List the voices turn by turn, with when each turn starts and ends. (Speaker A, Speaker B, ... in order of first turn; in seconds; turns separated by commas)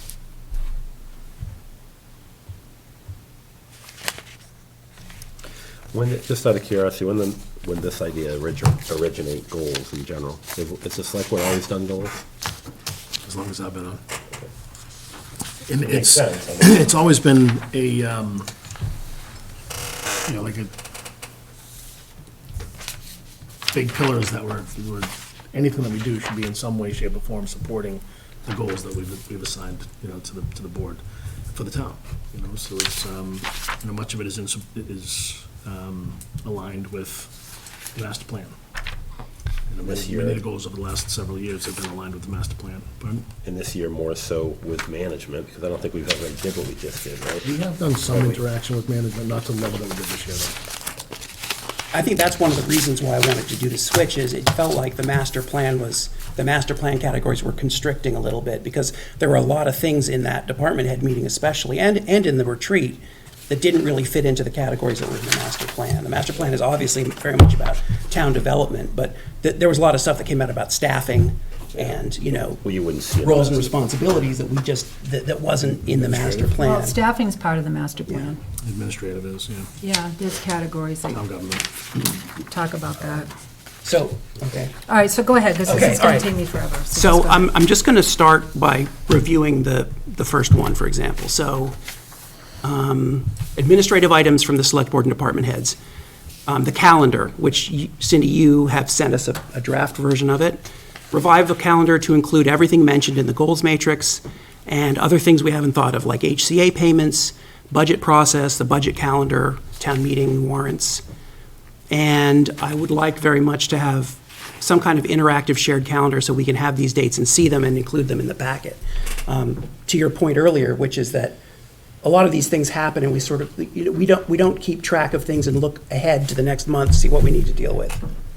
Speaker A: 5.9-12.2, Speaker B: 13.2-14.0, Speaker B: 15.7-18.5, Speaker A: 15.8-16.8, Speaker B: 20.2-20.7, Speaker B: 23.7-37.4, Speaker B: 37.9-38.5, Speaker B: 39.7-43.3, Speaker A: 39.8-40.4, Speaker A: 43.4-47.5, Speaker B: 47.4-50.6, Speaker A: 48.1-48.4, Speaker C: 51.9-72.6, Speaker A: 72.6-73.7, Speaker C: 73.2-77.0, Speaker B: 76.1-76.5, Speaker D: 76.6-78.4, Speaker B: 78.6-79.7, Speaker D: 79.8-81.2, Speaker B: 81.1-82.2, Speaker D: 82.4-83.3, Speaker C: 83.8-84.8, Speaker D: 84.9-87.5, Speaker C: 85.7-86.3, Speaker C: 86.9-91.8, Speaker C: 92.6-95.8, Speaker C: 96.5-111.0, Speaker C: 111.9-121.4, Speaker C: 122.0-128.0